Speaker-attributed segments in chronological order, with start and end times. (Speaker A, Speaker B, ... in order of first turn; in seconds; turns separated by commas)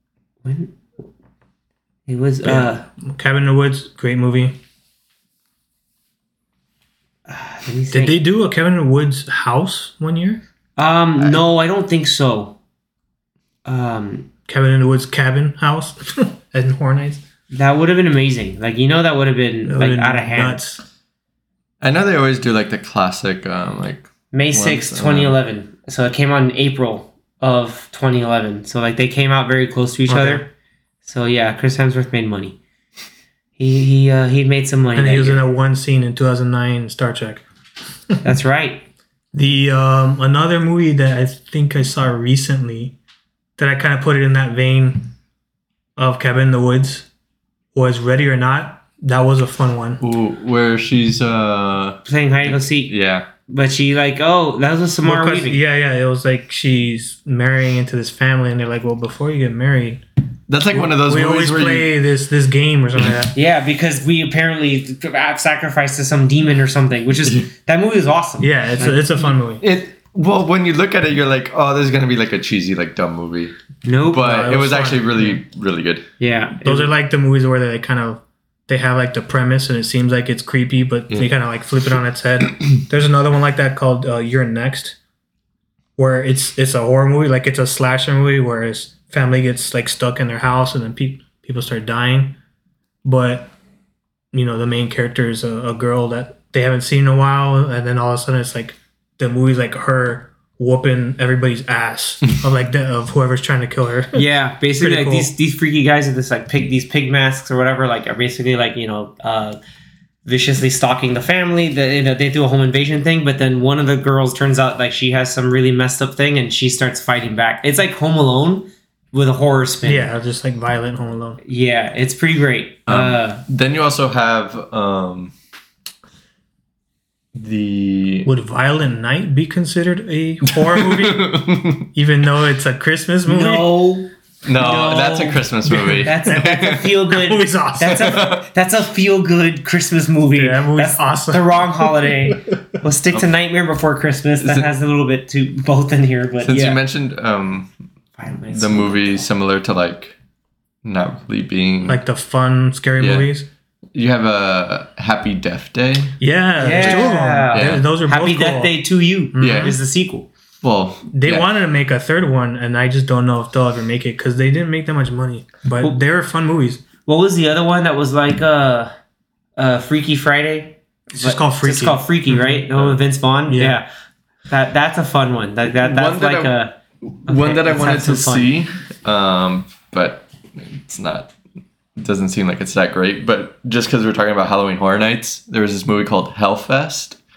Speaker A: 0.4-0.8, Speaker A: 2.1-2.8, Speaker B: 2.4-4.5, Speaker A: 7.3-8.2, Speaker B: 7.9-10.4, Speaker A: 10.8-12.6, Speaker A: 13.7-14.3, Speaker B: 14.5-17.2, Speaker A: 17.5-20.6, Speaker B: 19.6-20.8, Speaker C: 21.8-25.4, Speaker A: 24.3-30.5, Speaker B: 30.1-30.4, Speaker A: 31.1-32.6, Speaker A: 33.6-35.4, Speaker B: 35.0-37.5, Speaker A: 38.2-38.8, Speaker B: 39.3-43.0, Speaker B: 43.6-45.1, Speaker B: 46.0-47.1, Speaker B: 47.7-50.0, Speaker C: 50.0-53.3, Speaker A: 52.0-52.9, Speaker A: 53.5-55.6, Speaker B: 55.0-60.0, Speaker C: 60.5-61.9, Speaker B: 60.7-63.4, Speaker A: 63.3-69.3, Speaker B: 68.4-69.6, Speaker C: 69.6-73.5, Speaker A: 73.8-74.2, Speaker C: 74.1-76.0, Speaker B: 74.2-75.4, Speaker A: 76.2-76.9, Speaker B: 76.6-85.0, Speaker B: 86.0-92.4, Speaker B: 93.0-93.5, Speaker B: 94.3-104.3, Speaker A: 104.1-109.6, Speaker B: 104.8-105.3, Speaker A: 110.2-120.1, Speaker B: 119.8-121.4, Speaker A: 121.4-123.4, Speaker C: 122.9-125.3, Speaker C: 127.3-128.3, Speaker B: 128.3-131.4, Speaker C: 130.5-131.9, Speaker B: 131.9-133.7, Speaker A: 133.2-135.4, Speaker C: 134.5-137.0, Speaker B: 135.7-138.1, Speaker A: 136.0-146.8, Speaker C: 138.0-138.4, Speaker B: 140.3-141.9, Speaker C: 144.4-144.7, Speaker C: 146.4-147.7, Speaker A: 148.2-149.3, Speaker C: 148.5-150.2, Speaker C: 150.8-152.0, Speaker B: 151.8-153.5, Speaker C: 153.0-153.3, Speaker C: 153.9-156.2, Speaker B: 156.2-158.8, Speaker A: 156.6-160.3, Speaker C: 156.7-157.8, Speaker B: 159.3-159.8, Speaker C: 159.4-159.8, Speaker C: 160.6-161.5, Speaker B: 161.1-166.8, Speaker A: 167.1-168.9, Speaker A: 169.6-173.9, Speaker B: 171.1-172.7, Speaker B: 173.5-173.8, Speaker A: 174.5-176.7, Speaker C: 175.8-181.3, Speaker A: 177.3-178.5, Speaker C: 182.0-187.2